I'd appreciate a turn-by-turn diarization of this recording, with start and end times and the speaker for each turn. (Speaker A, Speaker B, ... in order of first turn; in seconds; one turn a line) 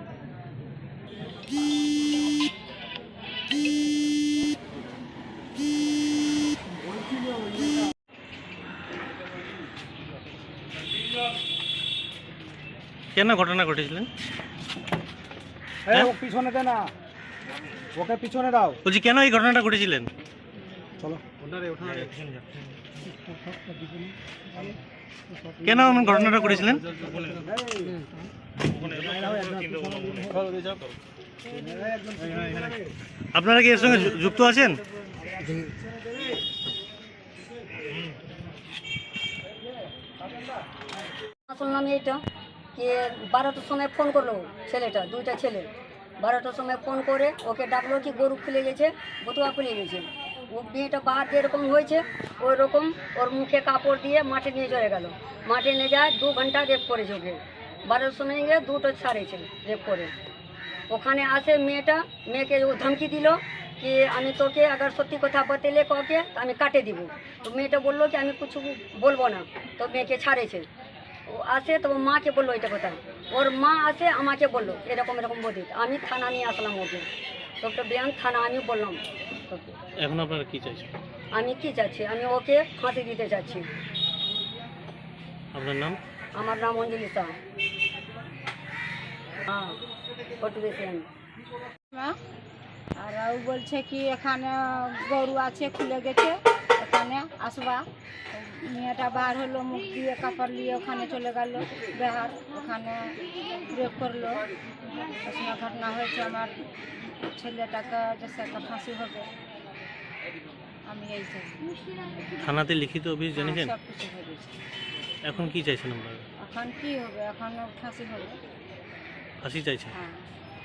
Speaker A: 13.1-14.1
Speaker B: 15.9-16.9
Speaker B: 17.9-18.8
Speaker A: 18.8-20.1
Speaker B: 21.0-21.2
Speaker A: 21.4-22.6
Speaker A: 25.6-27.4
Speaker A: 28.7-30.9
Speaker B: 29.1-30.1
Speaker B: 31.6-32.5
Speaker A: 33.3-34.8
Speaker C: 41.5-42.2
Speaker C: 42.8-45.7
Speaker C: 46.2-60.1
Speaker C: 60.9-70.7
Speaker C: 71.3-77.1
Speaker C: 77.6-79.7
Speaker A: 80.0-80.9
Speaker C: 81.3-83.7
Speaker A: 85.5-86.0
Speaker C: 86.3-87.3
Speaker C: 89.5-89.8
Speaker C: 90.4-91.0
Speaker D: 93.0-103.2
Speaker D: 103.7-104.4
Speaker D: 105.2-106.5
Speaker D: 107.1-109.3
Speaker D: 110.9-111.7
Speaker A: 112.4-113.7
Speaker D: 113.3-114.5
Speaker A: 115.2-116.2
Speaker D: 116.4-118.4
Speaker A: 119.4-119.9
Speaker D: 119.9-120.3